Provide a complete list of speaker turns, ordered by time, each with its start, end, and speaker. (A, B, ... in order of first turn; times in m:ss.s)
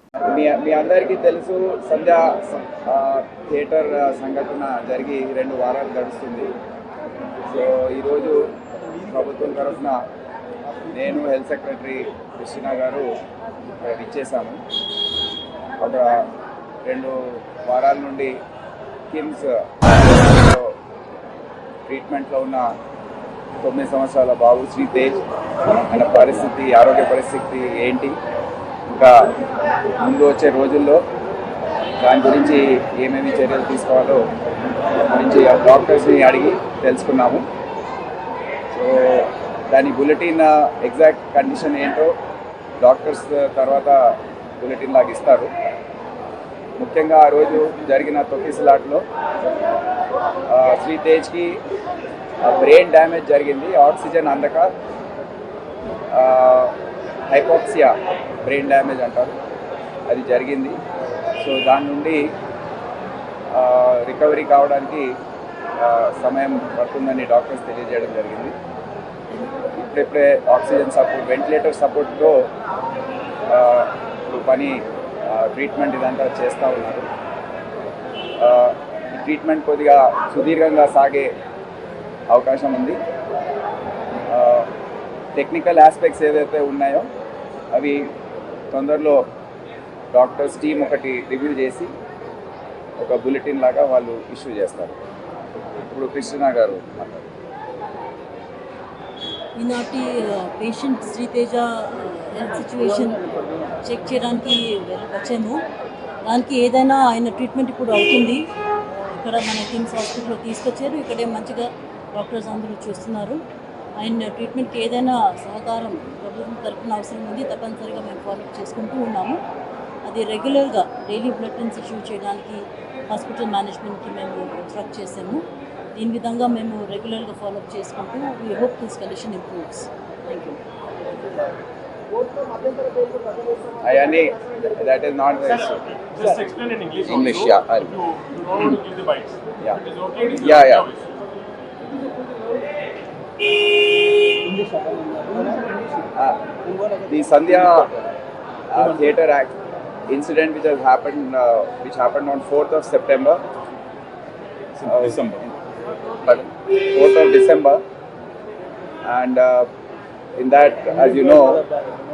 0:00.3-0:06.5 A
0:07.5-0:08.6 A
0:09.1-0:10.1 A
0:10.9-0:13.2 A
0:13.8-0:14.6 A
0:15.8-0:16.3 A
0:16.8-0:18.4 A
0:19.1-0:20.8 A
0:21.9-0:22.7 A
0:23.6-0:28.2 A
0:28.9-0:29.4 A
0:30.0-0:31.0 A
0:32.0-0:34.3 A
0:35.0-0:37.5 A
0:38.7-0:42.2 A
0:42.8-0:45.5 A
0:46.8-0:49.0 A
0:50.5-0:51.6 A
0:52.4-0:54.7 A
0:56.1-0:56.8 A
0:57.3-0:59.4 A
1:00.1-1:00.8 A
1:01.4-1:02.4 A
1:03.5-1:05.2 A
1:05.8-1:08.6 A
1:09.7-1:12.5 A
1:13.5-1:17.1 A
1:18.4-1:21.3 A
1:22.3-1:23.0 A
1:24.3-1:24.7 A
1:25.4-1:27.1 A
1:27.7-1:28.1 A
1:28.7-1:29.3 A
1:30.1-1:31.9 A
1:33.0-1:35.0 A
1:35.8-1:37.3 A
1:39.6-1:43.2 B
1:43.8-1:45.6 B
1:46.2-1:53.4 B
1:54.0-1:59.4 B
2:00.0-2:05.4 B
2:05.9-2:10.6 B
2:13.8-2:15.8 A
2:15.5-2:21.0 C
2:17.0-2:18.0 A
2:20.4-2:20.9 A
2:26.2-2:26.4 A
2:27.0-2:28.0 A
2:28.7-2:29.6 A
2:30.1-2:33.4 A
2:34.8-2:35.3 C
2:34.8-2:35.6 A
2:36.2-2:37.8 A
2:39.0-2:39.7 A
2:40.4-2:41.7 A